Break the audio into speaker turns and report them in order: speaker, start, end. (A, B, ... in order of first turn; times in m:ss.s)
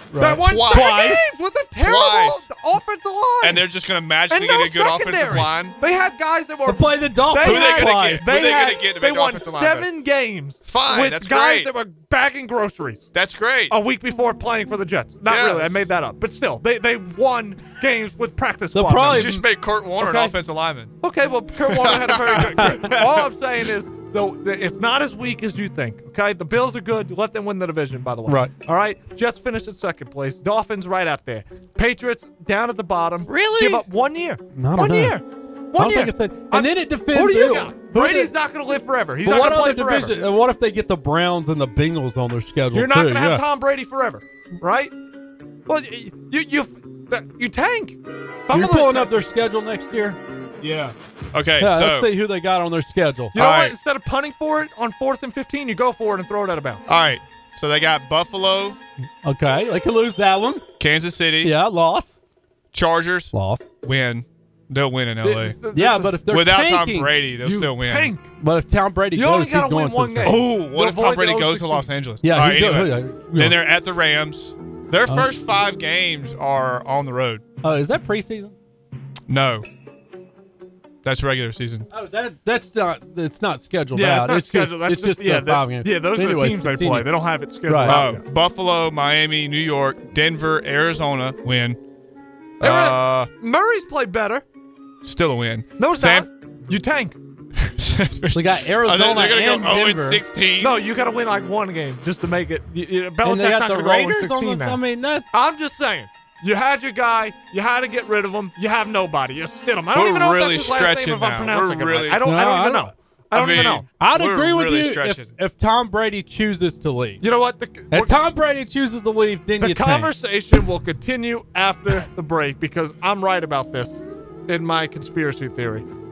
0:00.1-0:01.3 A
0:00.2-0:03.6 B
0:00.4-0:01.1 C
0:01.8-0:02.5 C
0:03.4-0:05.7 C
0:04.3-0:13.1 B
0:06.6-0:08.3 A
0:07.4-0:09.9 C
0:10.6-0:11.7 C
0:13.1-0:13.7 C
0:13.7-0:19.4 B
0:15.3-0:15.9 C
0:18.7-0:19.4 A
0:19.1-0:20.9 C
0:20.0-0:20.3 B
0:21.0-0:40.2 B
0:21.7-0:23.3 C
0:22.6-0:22.9 A
0:28.2-0:28.5 A
0:33.3-0:33.8 C
0:34.5-0:35.2 A
0:35.7-0:38.3 A
0:39.2-0:43.4 A
0:42.7-0:44.9 B
0:45.7-0:49.3 B
0:48.5-0:50.2 A
0:50.6-0:52.1 C
0:51.6-0:53.3 A
0:53.3-0:56.9 B
0:53.3-0:53.8 C
0:56.9-0:58.8 C
0:59.2-1:00.6 A
1:00.8-1:01.5 C
1:01.4-1:02.2 A
1:02.7-1:05.6 C
1:03.3-1:03.7 A
1:05.2-1:06.2 B
1:05.7-1:07.1 A
1:06.3-1:08.1 C
1:07.4-1:08.3 B
1:08.4-1:10.4 A
1:09.1-1:11.9 B
1:10.2-1:17.4 C
1:12.2-1:13.6 A
1:17.6-1:18.5 A
1:19.3-1:19.6 C
1:21.0-1:21.9 C
1:21.9-1:27.1 A
1:23.9-1:28.2 B
1:27.6-1:28.0 A
1:27.8-1:31.8 C
1:32.6-1:33.3 C
1:32.6-1:34.4 B
1:35.0-1:36.3 C
1:35.8-1:37.2 B
1:37.6-1:40.7 C
1:38.3-1:40.2 A
1:40.6-1:44.8 B
1:43.2-1:45.3 A
1:45.3-1:53.8 B
1:49.9-1:52.2 C
1:52.2-1:52.9 A
1:53.3-1:55.3 C
1:54.0-1:57.2 A
1:57.2-1:58.2 B
1:57.9-2:00.1 A
1:59.6-2:05.9 B